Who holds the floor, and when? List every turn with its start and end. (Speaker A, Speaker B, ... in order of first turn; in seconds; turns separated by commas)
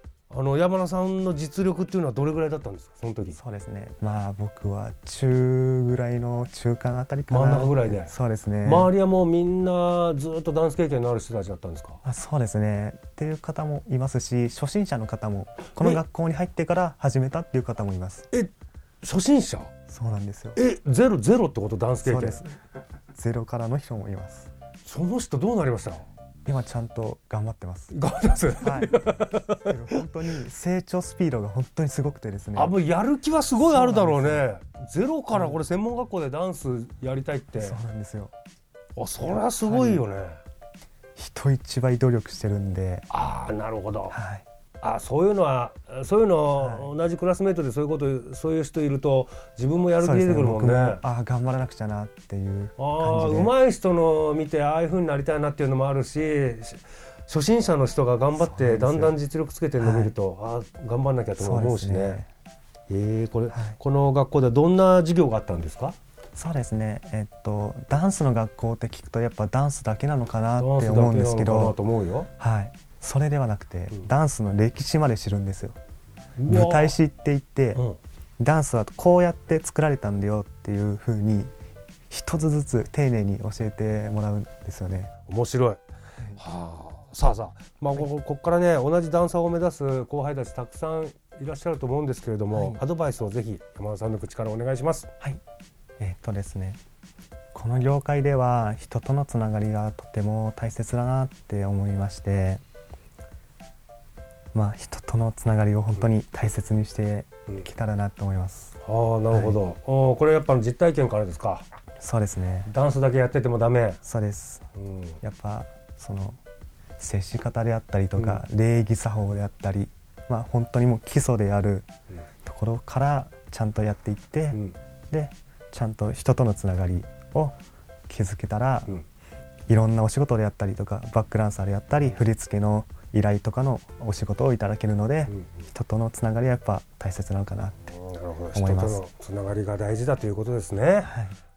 Speaker A: 0.3-3.4, Speaker B: 3.3-8.9, Speaker A: 7.3-12.0, Speaker B: 12.0-18.3, Speaker A: 18.3-19.7, Speaker B: 19.9-20.6, Speaker A: 20.6-22.5, Speaker B: 22.0-22.5, Speaker B: 23.1-24.5, Speaker A: 24.8-26.1, Speaker B: 26.4-27.9, Speaker A: 27.9-29.7, Speaker B: 28.6-32.8, Speaker A: 32.5-37.8, Speaker B: 33.5-34.5, Speaker B: 35.3-35.6, Speaker B: 37.5-38.3, Speaker A: 39.0-40.4, Speaker B: 39.4-40.0, Speaker B: 41.1-43.1, Speaker A: 43.1-44.2, Speaker B: 44.1-44.4, Speaker A: 44.8-51.0, Speaker B: 46.6-46.9, Speaker B: 50.0-53.5, Speaker A: 52.8-62.2, Speaker B: 58.3-59.2, Speaker B: 59.8-60.1, Speaker B: 61.4-62.3, Speaker A: 62.9-66.0, Speaker B: 63.5-63.8, Speaker B: 66.3-71.8, Speaker A: 70.6-72.3, Speaker B: 72.4-75.8, Speaker A: 76.4-77.0, Speaker B: 76.5-77.8, Speaker A: 77.7-78.0, Speaker B: 78.4-81.5, Speaker B: 82.1-85.1, Speaker A: 85.2-85.8, Speaker A: 86.3-95.1, Speaker B: 92.5-92.8, Speaker B: 96.0-96.8, Speaker B: 97.5-102.6, Speaker B: 104.5-108.8, Speaker A: 108.8-111.6, Speaker B: 109.3-109.6, Speaker B: 112.0-112.7, Speaker A: 112.7-114.0, Speaker B: 114.0-114.7, Speaker A: 114.8-115.2, Speaker B: 115.2-116.4, Speaker B: 117.0-121.9, Speaker A: 118.2-118.4, Speaker B: 122.4-127.5, Speaker A: 124.5-124.8, Speaker B: 128.1-128.9, Speaker B: 129.7-137.9, Speaker A: 137.9-141.2, Speaker B: 138.5-139.0, Speaker B: 141.0-141.3